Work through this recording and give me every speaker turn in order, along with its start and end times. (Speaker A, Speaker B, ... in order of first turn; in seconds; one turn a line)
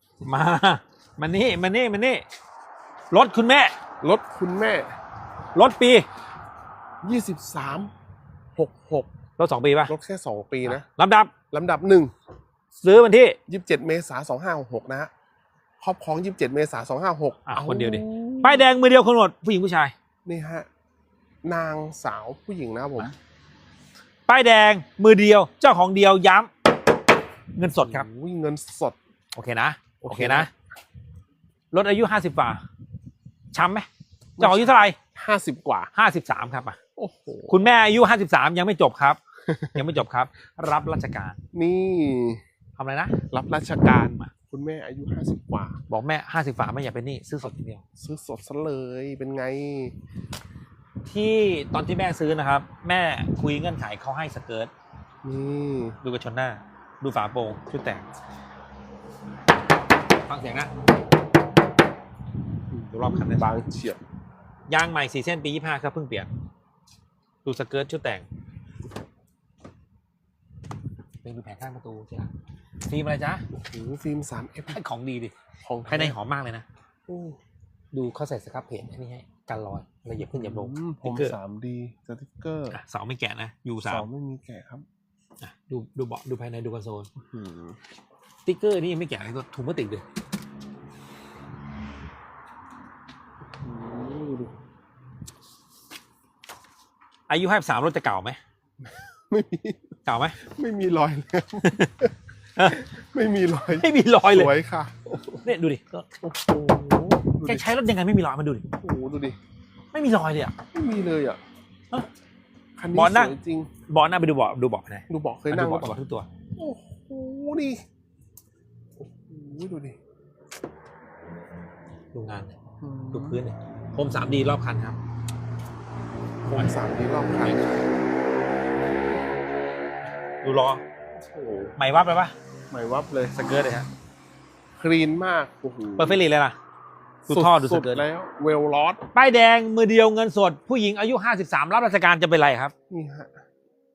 Speaker A: 0.2-2.2
Speaker A: 3.1-3.7
Speaker B: 4.0-4.9
Speaker A: 5.5-6.0
Speaker B: 7.0-7.9
Speaker B: 8.6-9.1
Speaker A: 9.4-9.9
Speaker B: 9.9-10.8
Speaker A: 10.6-11.3
Speaker B: 11.5-12.1
Speaker A: 12.8-13.4
Speaker B: 13.5-15.1
Speaker B: 15.8-18.7
Speaker A: 17.4-19.9
Speaker B: 20.2-20.7
Speaker B: 21.4-23.1
Speaker A: 24.3-26.5
Speaker A: 27.5-28.1
Speaker B: 27.8-28.9
Speaker A: 29.3-30.5
Speaker B: 30.0-30.5
Speaker A: 31.7-32.6
Speaker A: 33.5-33.9
Speaker B: 34.4-35.9
Speaker A: 34.4-35.0
Speaker A: 35.9-36.8
Speaker B: 37.0-37.5
Speaker A: 37.5-39.2
Speaker B: 39.5-39.9
Speaker A: 39.7-41.4
Speaker B: 41.5-42.4
Speaker A: 42.8-43.1
Speaker B: 43.3-45.8
Speaker A: 44.0-44.3
Speaker A: 45.9-47.8
Speaker B: 48.0-49.9
Speaker A: 51.1-54.7
Speaker B: 55.2-56.0
Speaker A: 56.0-58.0
Speaker A: 60.2-60.7
Speaker B: 62.7-64.0
Speaker A: 62.9-63.5
Speaker A: 64.7-66.3
Speaker A: 67.4-68.2
Speaker A: 71.2-72.3
Speaker A: 72.8-73.5
Speaker B: 73.5-74.8
Speaker A: 74.7-75.3
Speaker B: 75.6-76.2
Speaker A: 75.8-76.7
Speaker B: 77.1-77.4
Speaker A: 77.9-81.3
Speaker B: 80.3-82.8
Speaker A: 82.7-84.0
Speaker B: 83.8-84.8
Speaker A: 85.4-87.1
Speaker B: 87.2-87.8
Speaker A: 88.4-90.0
Speaker B: 93.6-94.5
Speaker A: 97.3-98.4
Speaker B: 98.8-105.4
Speaker A: 100.0-100.4
Speaker A: 102.6-102.9
Speaker A: 103.8-104.5
Speaker A: 105.3-106.1
Speaker B: 106.2-107.7
Speaker A: 107.4-108.6
Speaker B: 108.8-109.4
Speaker A: 109.9-110.5
Speaker B: 110.7-111.4
Speaker B: 112.8-113.7
Speaker A: 112.9-113.3
Speaker A: 113.9-116.3
Speaker B: 115.1-116.0
Speaker B: 116.5-117.8
Speaker B: 119.0-120.0
Speaker A: 122.1-122.6
Speaker B: 122.8-123.4
Speaker A: 123.1-125.0
Speaker B: 126.4-127.7
Speaker A: 127.3-127.7
Speaker A: 130.4-130.8
Speaker B: 131.2-131.7
Speaker A: 131.8-132.3
Speaker B: 132.7-133.3
Speaker A: 133.3-133.9
Speaker B: 134.8-136.2
Speaker A: 136.0-136.6
Speaker A: 137.3-138.1
Speaker B: 137.3-139.0
Speaker A: 139.1-142.7
Speaker B: 142.9-143.4